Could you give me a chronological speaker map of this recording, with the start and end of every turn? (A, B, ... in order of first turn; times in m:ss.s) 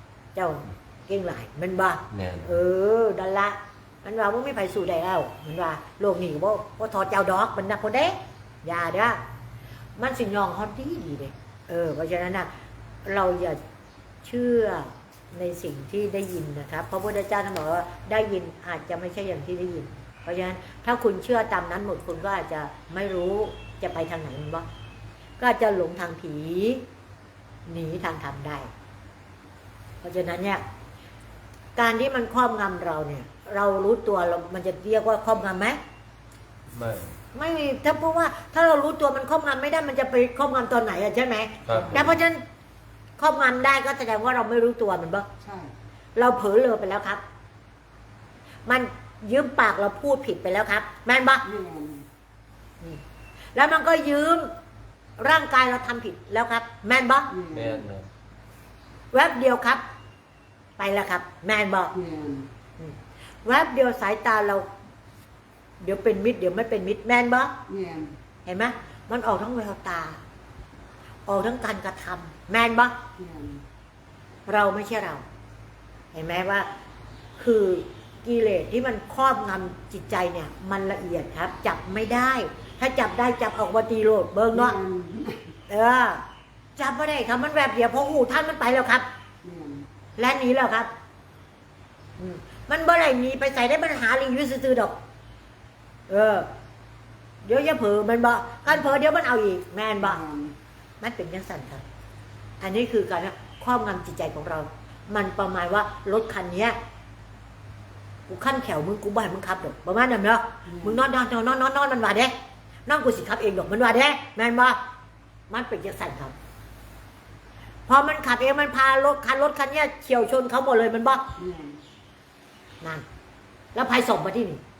0:00.3-0:09.2 A
0:02.1-0:02.5 B
0:10.0-0:12.5 A
0:13.0-0:13.6 A
0:14.2-0:24.7 A
0:25.4-0:26.8 A
0:27.7-0:28.7 A
0:30.0-0:30.6 A
0:31.8-0:35.8 A
0:36.7-0:37.2 B
0:37.3-0:42.4 A
0:41.6-0:42.2 B
0:43.2-0:45.3 A
0:45.4-0:45.7 C
0:46.2-0:47.2 A
0:48.6-0:51.4 A
0:51.4-0:52.1 C
0:53.6-0:54.5 A
0:55.2-0:57.3 A
0:57.3-0:57.9 C
0:57.5-0:58.1 B
0:59.1-0:59.8 A
1:00.8-1:01.9 A
1:01.9-1:02.5 C
1:02.8-1:04.7 A
1:05.8-1:07.5 A
1:07.7-1:08.1 C
1:08.4-1:10.2 A
1:11.3-1:13.0 A
1:13.2-1:13.6 C
1:14.5-1:15.2 A
1:16.1-1:16.7 A
1:17.4-1:24.8 A
1:24.5-1:25.5 C
1:25.7-1:26.2 A
1:26.8-1:29.1 A
1:29.4-1:29.9 C
1:30.2-1:30.9 A
1:32.2-1:35.0 A
1:36.1-1:36.5 A
1:37.4-1:40.2 A
1:40.0-1:40.6 C
1:41.0-1:41.8 A
1:42.6-1:46.8 A
1:48.3-1:54.8 A
1:50.6-1:51.0 C
1:55.5-1:56.3 A
1:57.9-2:01.2 A
2:01.4-2:01.8 C
2:03.8-2:04.6 A